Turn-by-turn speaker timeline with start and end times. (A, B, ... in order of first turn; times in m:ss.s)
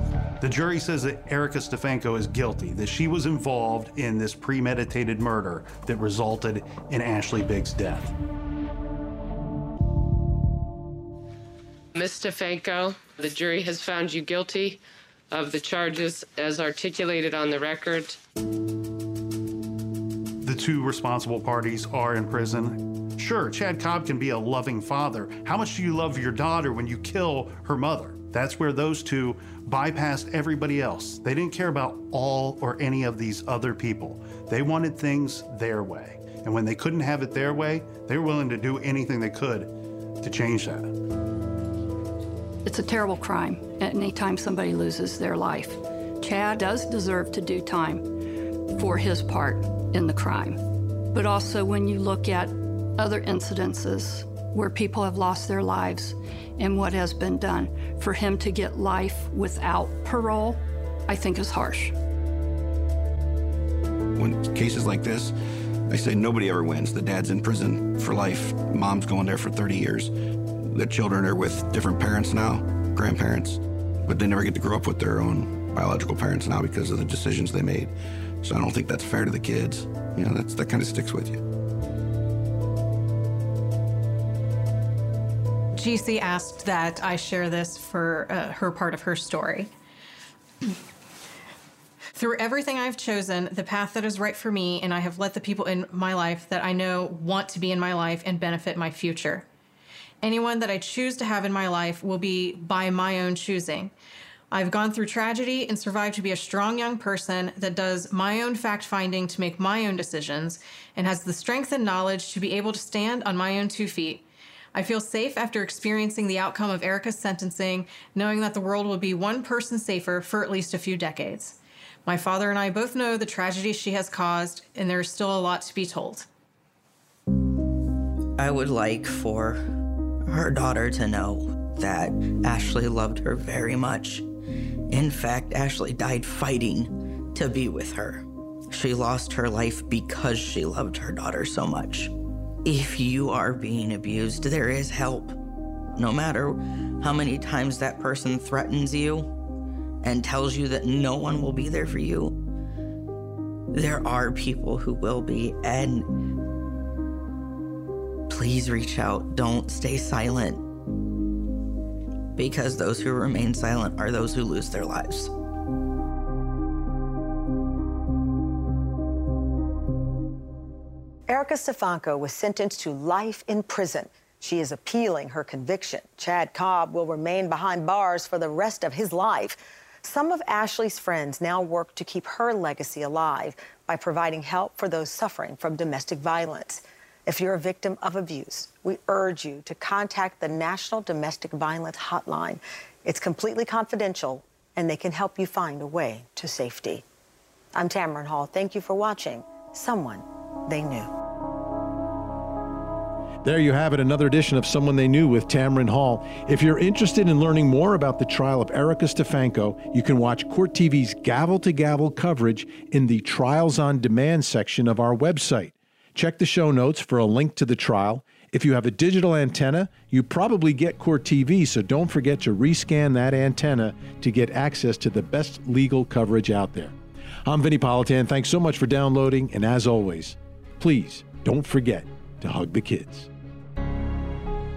0:00.4-0:08.1 A
0:11.9-0:18.2 B
0:20.4-0:39.7 A
0:40.2-0:40.9 A
0:42.6-0:48.0 C
0:48.8-0:50.6 C
0:51.1-1:01.9 C
1:04.2-1:05.3 D
1:05.9-1:17.9 D
1:18.4-1:21.4 D
1:25.8-1:29.7 E
1:32.1-1:39.5 E
1:40.2-1:43.9 E
1:44.5-2:06.3 E
2:08.4-2:09.6 F
2:10.3-2:14.2 F
2:14.9-2:22.1 F
2:22.6-2:25.4 F
2:26.0-2:29.3 F
2:30.0-2:32.4 F
2:33.7-2:36.1 F
2:38.3-2:40.6 F
2:42.4-2:45.3 F
2:51.3-3:17.0 G
3:17.7-3:21.1 G
3:23.4-3:53.3 H